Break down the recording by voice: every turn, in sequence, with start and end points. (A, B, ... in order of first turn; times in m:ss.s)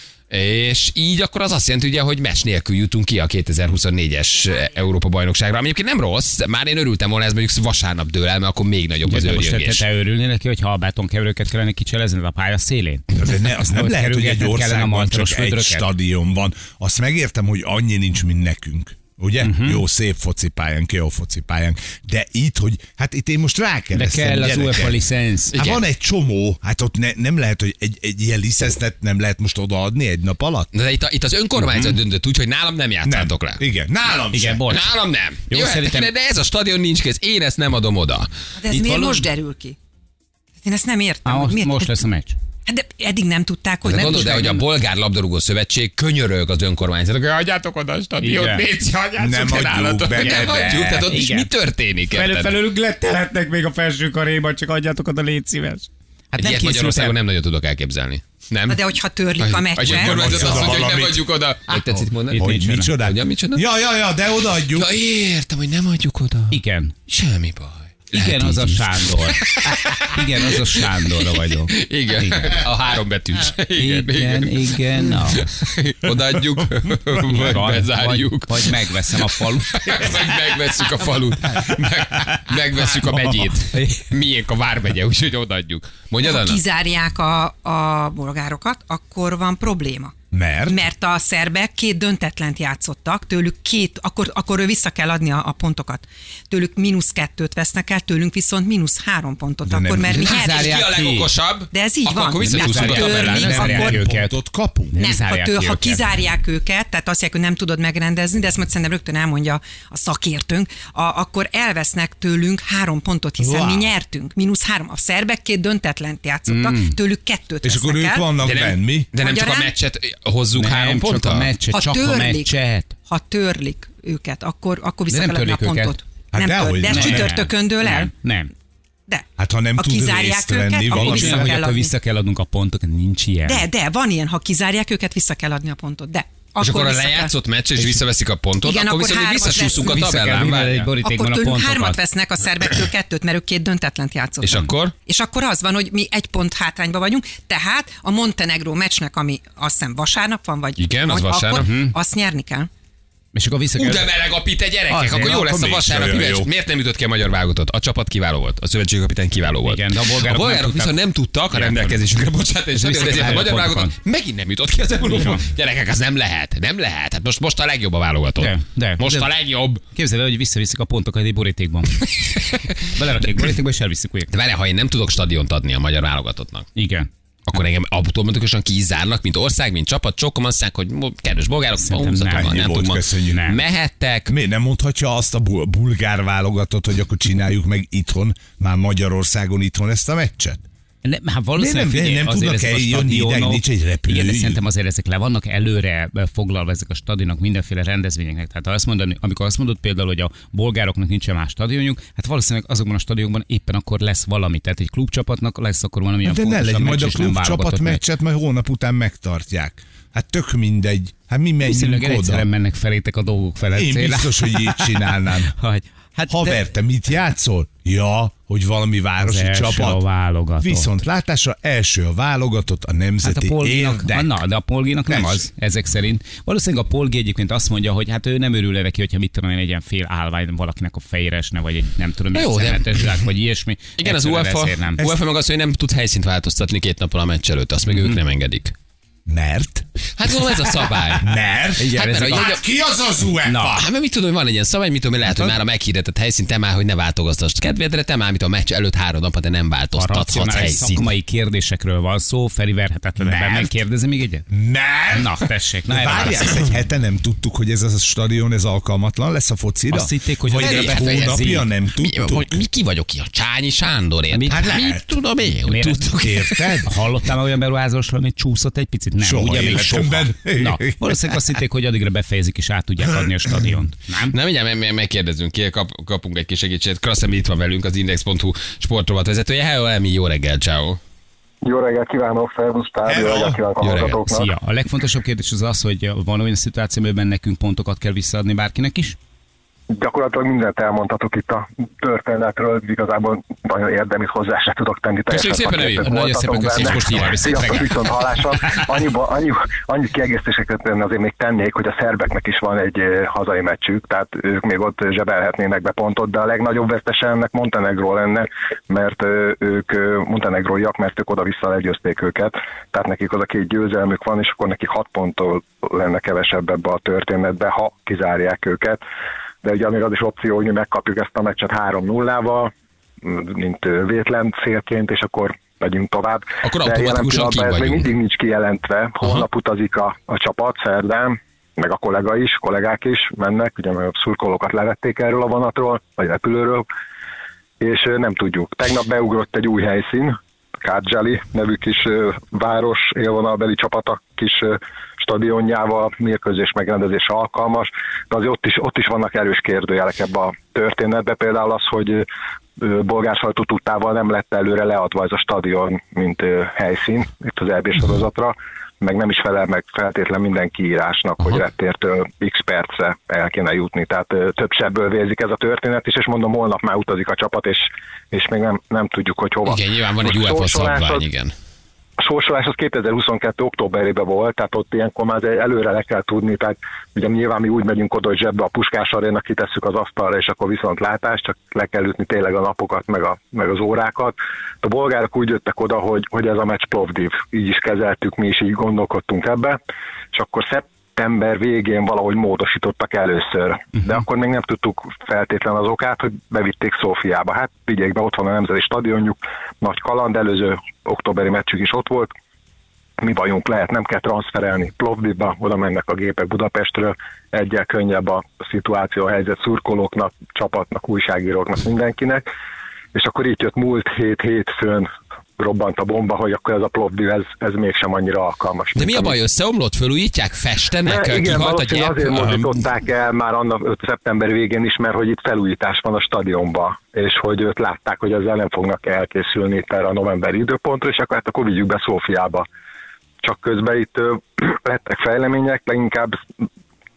0:00.3-0:09.9 A
0:09.0-0:13.0 B
0:13.1-0:25.0 C
0:13.6-0:15.9 B
0:19.4-0:19.8 B
0:23.9-0:25.5 B
0:25.5-0:25.8 A
0:25.5-0:30.7 C
0:30.7-0:33.6 A
0:31.6-0:31.9 B
0:33.0-0:34.7 C
0:34.3-0:34.9 B
0:34.7-0:38.3 A
0:35.5-0:36.1 B
0:38.6-0:39.8 D
0:38.7-0:39.2 B
0:40.6-0:42.0 D
0:41.3-0:42.4 B
0:42.7-0:44.7 D
0:43.8-0:52.5 A
0:48.2-0:48.7 B
0:49.2-0:51.0 C
0:50.2-0:51.5 B
0:52.1-0:57.2 B
0:56.4-0:58.8 A
0:58.7-1:00.8 D
0:59.4-1:03.6 A
0:59.8-1:01.3 C
1:02.3-1:04.9 C
1:02.3-1:02.9 B
1:04.5-1:06.6 A
1:06.5-1:07.0 B
1:07.1-1:10.9 A
1:08.1-1:12.6 B
1:11.7-1:18.8 A
1:13.8-1:15.4 B
1:17.2-1:20.2 B
1:19.3-1:26.6 A
1:22.9-1:23.8 B
1:26.2-1:30.1 D
1:30.3-1:30.8 C
1:30.7-1:40.7 D
1:39.7-1:40.3 C
1:40.2-1:43.6 A
1:40.2-1:41.3 B
1:41.7-1:44.0 D
1:42.5-1:44.4 B
1:42.6-1:44.9 C
1:44.9-1:46.1 B
1:45.0-1:58.3 D
1:53.4-1:53.9 C
1:56.5-1:57.0 B
1:57.6-1:59.1 C
1:58.4-2:01.5 A
1:59.2-1:59.8 D
2:00.6-2:03.0 B
2:01.7-2:02.5 D
2:03.1-2:08.1 D
2:05.1-2:06.0 B
2:06.3-2:07.4 C
2:06.9-2:08.5 B
2:09.1-2:11.9 D
2:09.4-2:11.6 C
2:11.0-2:13.7 B
2:13.4-2:17.3 D
2:16.6-2:20.9 A
2:18.6-2:20.0 D
2:19.7-2:22.0 B
2:21.0-2:32.7 D
2:24.4-2:24.9 A
2:30.8-2:31.7 A
2:31.6-2:32.0 B
2:33.3-2:34.1 B
2:33.8-2:49.8 A
2:34.9-2:35.4 B
2:35.0-2:36.5 C
2:39.6-2:41.0 B
2:41.5-2:42.0 B
2:42.7-2:43.9 B
2:48.4-2:49.3 B
2:49.9-2:52.0 B
2:52.0-2:53.5 A
2:52.9-2:54.3 B
2:54.3-2:56.7 A
2:56.8-2:57.1 B
2:57.5-3:04.3 A
3:01.8-3:02.6 B
3:02.3-3:03.5 C
3:03.3-3:03.6 B
3:04.3-3:10.6 C
3:11.0-3:28.0 B
3:11.6-3:14.6 C
3:26.2-3:32.5 C
3:31.6-3:36.6 B
3:33.7-3:35.5 C
3:36.3-3:40.0 C
3:39.2-3:40.9 B
3:40.6-3:44.4 C
3:43.2-3:55.0 B
3:45.1-3:45.5 C
3:52.3-3:53.2 A
3:54.0-3:58.8 A
3:59.3-3:59.9 C
4:00.2-4:01.3 A
4:01.1-4:03.9 C
4:01.8-4:02.6 B
4:01.9-4:02.6 A
4:03.4-4:03.8 B
4:03.7-4:11.1 A
4:09.9-4:14.5 B
4:13.2-4:13.8 C
4:14.5-4:22.6 C
4:15.1-4:16.7 B
4:19.9-4:21.7 B
4:20.6-4:26.8 A
4:24.3-4:24.7 B
4:24.5-4:25.1 C
4:25.7-4:26.2 B
4:26.1-4:26.9 C
4:26.8-4:34.4 B
4:29.2-4:31.2 C
4:34.3-4:41.0 A
4:41.6-4:44.5 E
4:43.0-4:43.6 C
4:43.8-4:44.2 A
4:44.3-4:49.2 B
4:49.9-5:19.0 E
4:55.3-4:56.1 A
4:56.0-4:58.2 B
4:56.7-4:57.8 A
5:19.6-5:22.7 E
5:23.2-5:36.9 E
5:26.6-5:28.1 A
5:37.8-5:52.3 E
5:52.8-6:11.3 E
6:09.6-6:11.5 A
6:12.2-6:29.8 E
6:30.3-6:42.3 E
6:43.2-6:52.4 E
6:53.1-6:55.1 E
6:55.6-6:59.4 E
6:59.0-7:02.7 A
7:01.0-7:12.7 E
7:13.4-7:16.4 E